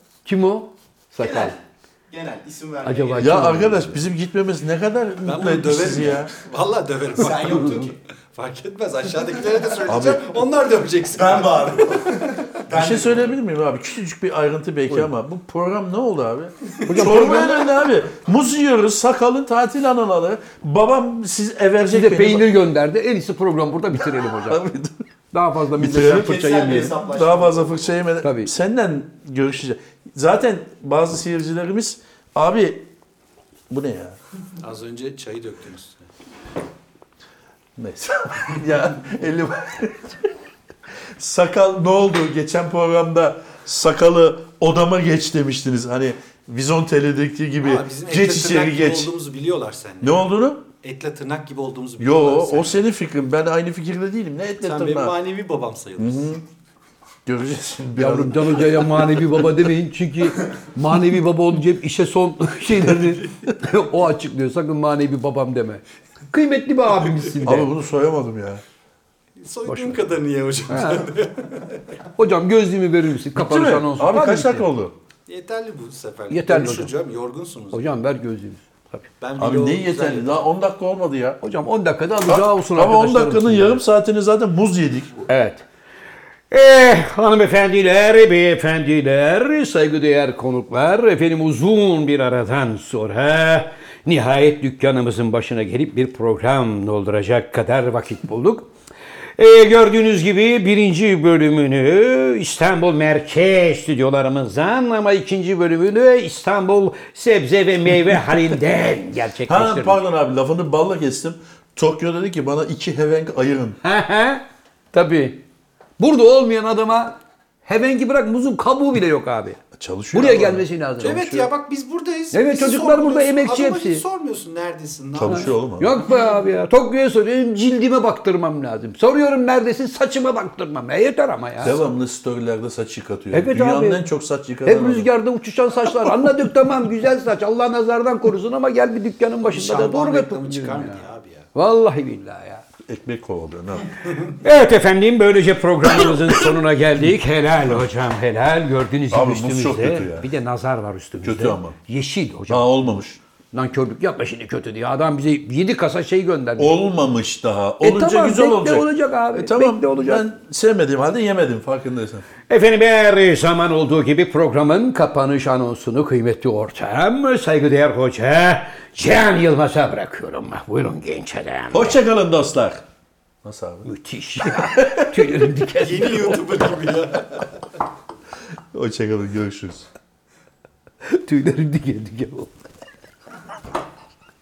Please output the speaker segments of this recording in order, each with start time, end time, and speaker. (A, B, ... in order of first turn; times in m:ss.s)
0:00.2-0:01.6 A
0:01.2-0:03.8 B
0:02.8-0:04.0 A
0:03.2-0:06.3 C
0:05.2-0:12.3 D
0:07.2-0:08.0 B
0:09.9-0:10.3 C
0:11.2-0:13.4 B
0:12.7-0:22.6 C
0:16.9-0:17.6 A
0:21.9-0:24.6 A
0:24.0-0:25.0 C
0:25.3-0:27.0 A
0:25.8-0:26.4 C
0:25.9-0:27.9 B
0:27.1-0:32.9 C
0:28.2-0:28.5 A
0:33.7-0:34.2 C
0:34.6-0:36.1 D
0:37.8-0:40.2 C
0:41.2-0:49.1 C
0:47.6-0:50.3 D
0:50.0-0:50.6 C
0:50.8-0:52.9 D
0:52.0-0:55.2 C
0:54.6-0:56.3 D
0:56.0-0:56.4 C
0:57.3-0:59.3 C
0:58.0-1:07.7 A
1:07.4-1:08.6 C
1:09.4-1:11.8 D
1:09.7-1:10.0 A
1:10.7-1:11.1 A
1:12.2-1:14.7 A
1:13.3-1:15.0 C
1:15.3-1:18.0 D
1:16.3-1:16.9 A
1:17.7-1:19.1 A
1:19.2-1:20.5 D
1:19.4-1:21.4 C
1:21.4-1:23.8 A
1:22.3-1:25.2 C
1:25.3-1:25.6 A
1:26.5-1:38.7 A
1:39.4-1:50.0 A
1:49.5-1:53.8 C
1:53.8-1:55.4 A
1:56.0-1:59.6 A
1:59.7-2:00.7 C
2:00.1-2:01.4 A
2:01.0-2:05.6 D
2:02.3-2:04.0 A
2:05.1-2:06.0 C
2:05.2-2:11.8 A
2:11.6-2:15.1 C
2:13.3-2:14.0 A
2:14.7-2:21.0 A
2:19.4-2:21.5 D
2:21.6-2:22.6 A
2:22.8-2:24.0 C
2:24.4-2:32.9 A
2:25.8-2:26.6 C
2:29.1-2:30.3 C
2:31.2-2:31.8 C
2:32.5-2:33.2 C
2:33.5-2:36.8 A
2:36.6-2:42.3 C
2:37.8-2:40.2 A
2:42.5-2:52.0 A
2:51.7-2:52.8 C
2:53.4-2:53.9 C
2:53.8-2:56.5 A
2:54.4-2:55.5 C
2:55.8-2:57.6 D
2:58.7-2:59.9 C
3:01.0-3:02.5 A